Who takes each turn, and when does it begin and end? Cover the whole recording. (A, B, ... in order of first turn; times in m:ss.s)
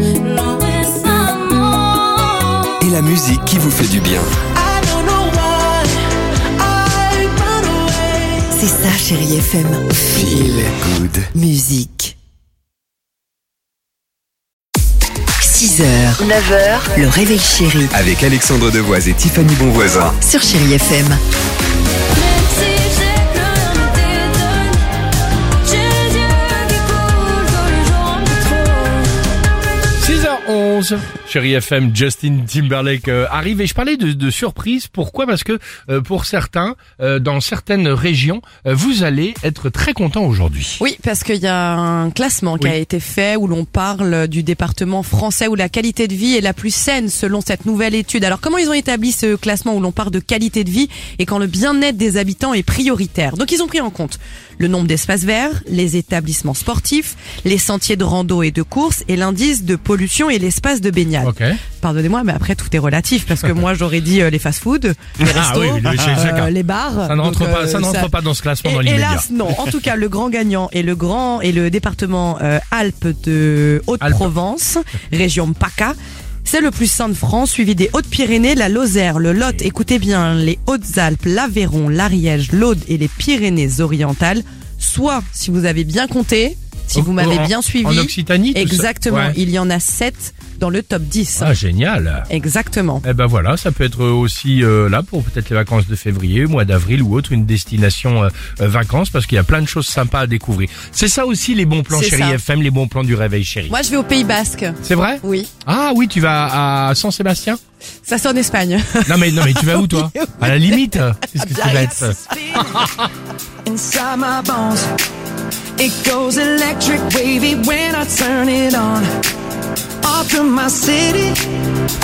0:00.2-0:02.4 A
0:02.8-0:04.3 B
0:04.5-0:06.1 C
0:06.6-0:08.4 C
0:08.5-0:10.7 D
0:10.1-0:11.3 B
0:11.3-0:12.2 D
0:15.4-0:17.9 D
0:16.4-0:16.8 A
0:17.9-0:20.2 B
0:20.2-0:21.2 D
0:22.1-0:24.8 A
0:25.6-0:29.0 A
0:30.0-0:40.8 E
0:40.8-1:31.5 F
1:01.2-1:01.6 E
1:05.2-1:06.5 E
1:07.1-1:09.3 E
1:14.0-1:14.3 E
1:26.9-1:29.4 E
1:31.4-1:32.3 E
1:32.3-1:33.0 F
1:33.0-1:43.7 E
1:41.9-1:42.4 F
1:43.7-1:45.5 F
1:44.8-1:47.6 E
1:48.0-1:50.6 F
1:49.1-1:53.1 E
1:51.4-1:52.2 F
1:52.3-1:52.9 C
1:53.6-1:54.9 C
1:55.8-1:59.1 C
2:00.0-2:01.6 C